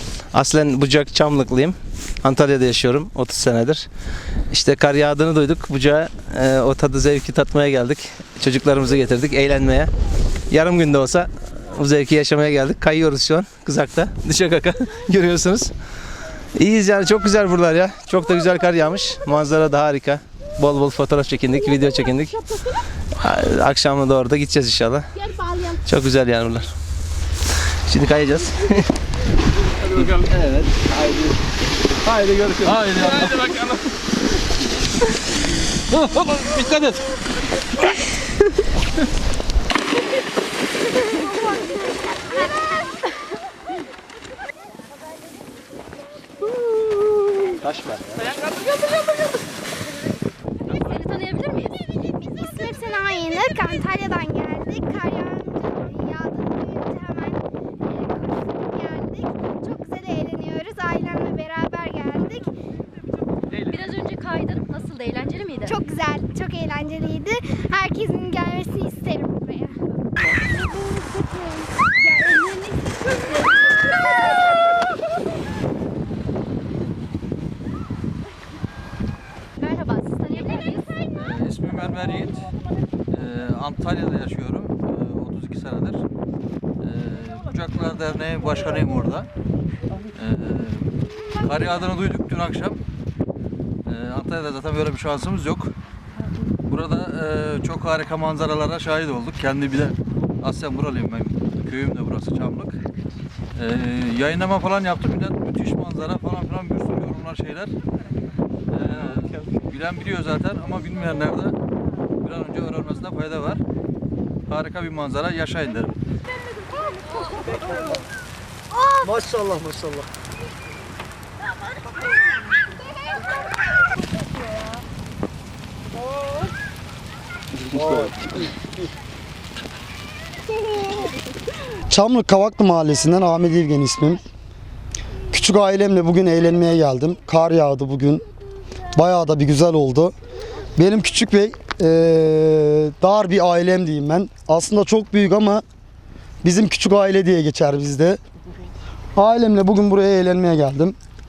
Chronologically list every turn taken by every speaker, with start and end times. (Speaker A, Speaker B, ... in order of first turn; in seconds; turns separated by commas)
Speaker A: 0.3-3.9, Speaker A: 4.5-9.9, Speaker A: 10.5-15.7, Speaker A: 16.5-22.4, Speaker A: 23.1-26.7, Speaker A: 27.9-28.9, Speaker A: 30.0-31.2, Speaker B: 32.3-33.7, Speaker C: 41.1-42.9, Speaker D: 50.7-51.8, Speaker C: 52.0-62.5, Speaker D: 63.6-65.8, Speaker C: 65.6-69.8, Speaker C: 72.2-72.6, Speaker D: 79.6-81.0, Speaker B: 81.1-82.5, Speaker B: 83.1-86.0, Speaker B: 86.8-89.3, Speaker B: 90.1-92.8, Speaker B: 93.9-95.7, Speaker B: 96.7-102.8, Speaker B: 103.5-107.7, Speaker B: 108.7-111.6, Speaker B: 112.2-113.6, Speaker B: 114.5-116.0, Speaker E: 119.0-120.0, Speaker E: 131.9-134.2, Speaker E: 135.3-138.2, Speaker E: 138.9-140.1, Speaker E: 140.8-145.6, Speaker E: 146.4-148.2, Speaker E: 149.2-150.9